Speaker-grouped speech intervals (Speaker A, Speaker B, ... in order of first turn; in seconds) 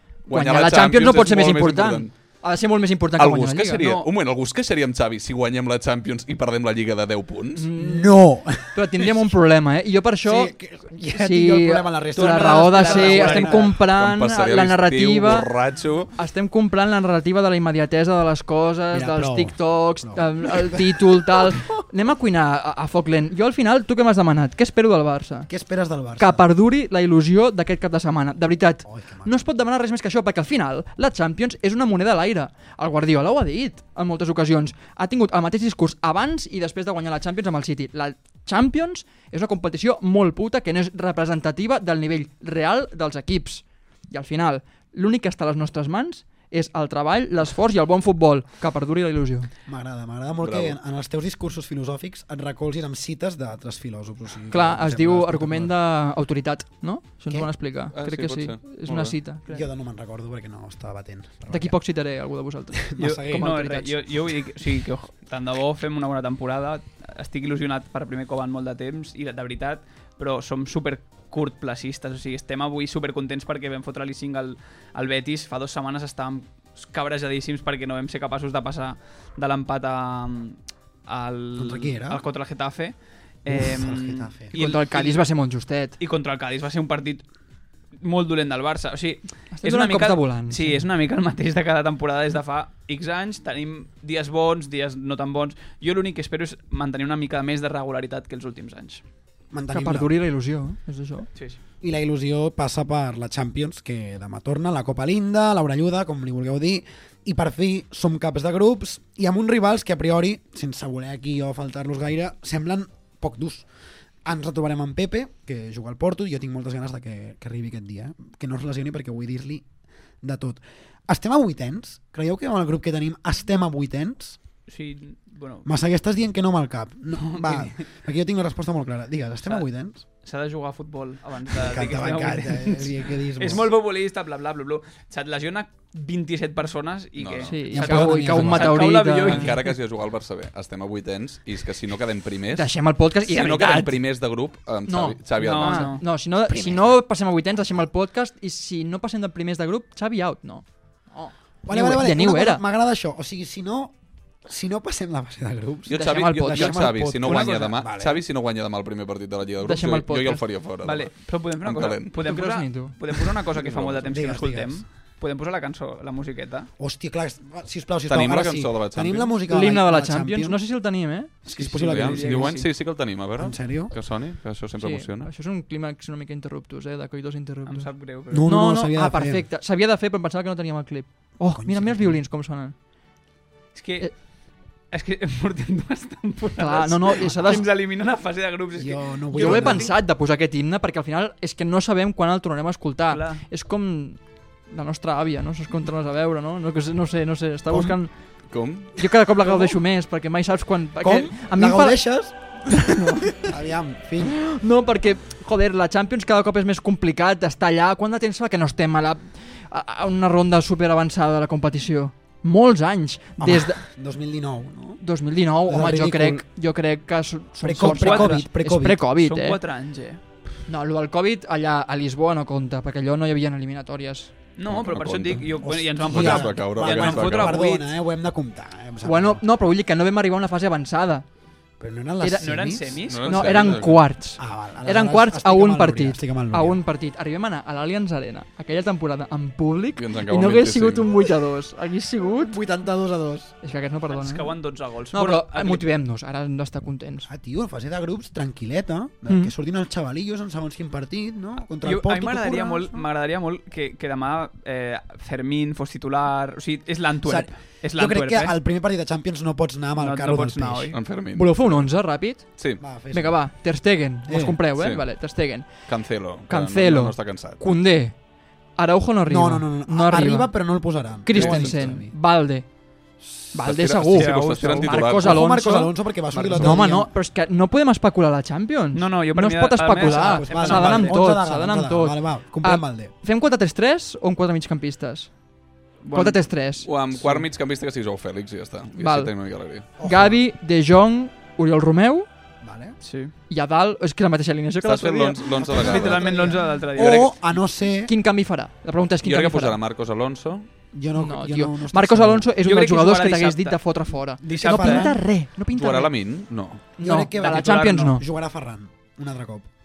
Speaker A: 0.3-2.1, 3.2-7.7, 13.8-16.1, 50.4-50.8, 57.9-59.2, 137.2-137.6, 139.2-145.9, 155.9-162.1, 163.5-164.2, 168.1-169.3, 171.8-175.3, 198.5-199.1, 224.7-225.5, 226.1-227.6, 233.1-234.0, 239.9-241.1, 260.9-261.8, 262.6-262.8, 264.8-265.1, 265.8-267.6, 271.3-271.8, 273.6-275.5, 276.3-276.8, 286.8-289.9, 294.8-297.4, 299.2-300.7, 305.7-306.9
Speaker B: 0.3-3.8, 7.5-10.5, 11.1-15.5, 16.1-25.5, 26.2-49.5, 54.5-59.6, 61.5-64.0, 84.5-86.0, 89.5-90.8, 99.7-101.3, 137.5-139.5, 142.5-144.0, 144.9-152.6, 155.9-157.1, 159.6-160.4, 162.2-162.9, 169.5-171.3, 174.8-177.9, 178.4-182.7, 186.6-187.7, 189.3-198.1, 199.0-202.1, 202.7-203.5, 204.2-213.8, 215.0-219.6, 220.7-224.3, 229.0-231.2, 232.2-232.5, 233.2-242.6, 243.6-244.5, 245.1-247.3, 249.3-249.5, 261.3-265.9, 266.5-268.1, 268.8-270.6, 271.2-272.6, 273.5-276.0, 276.5-285.3, 286.1-286.9, 289.0-289.3, 290.0-292.3, 293.5-295.5, 298.1-299.8, 301.1-306.1, 307.0-308.2
Speaker C: 3.8-4.1, 12.2-13.7, 63.0-85.2, 86.0-87.2, 88.0-99.0, 124.7-125.7, 127.2-127.8, 130.2-139.7, 143.4-143.8, 145.4-146.0, 157.2-157.7, 160.8-166.7, 171.6-172.7, 177.7-178.5, 183.7-184.2, 184.9-189.9, 193.1-193.4, 217.9-218.4, 219.1-220.2, 224.6-227.9, 232.4-233.8, 244.1-245.8, 251.8-258.5, 260.0-261.0, 274.1-275.1, 278.9-281.2, 286.0-286.4, 287.2-287.4, 293.0-293.3, 295.7-297.4, 302.6-303.8, 304.4-305.1, 307.4-308.1
Speaker D: 7.8-9.3, 10.2-13.8, 18.9-21.4, 25.5-26.4, 28.8-29.4, 49.6-55.7, 59.5-61.8, 62.8-63.5, 81.5-82.2, 83.5-84.5, 99.5-100.1, 101.8-113.7, 114.2-119.6, 120.2-124.4, 125.6-130.0, 131.5-133.7, 137.7-138.8, 146.4-147.0, 151.6-158.2, 164.1-164.8, 166.8-170.6, 171.4-172.6, 173.4-173.9, 178.3-179.4, 181.4-182.2, 188.8-189.9, 197.7-198.0, 199.4-199.7, 201.0-202.3, 203.3-204.4, 213.4-215.0, 215.7-216.4, 217.6-219.0, 225.6-229.4, 231.8-233.1, 234.4-236.8, 242.3-243.5, 247.3-253.1, 257.2-260.9, 262.8-263.4, 264.3-264.6, 269.2-272.1, 275.0-277.1, 280.0-283.1, 290.0-290.4, 292.6-292.9, 295.6-298.1, 300.9-302.5, 304.5-305.2, 307.0-309.7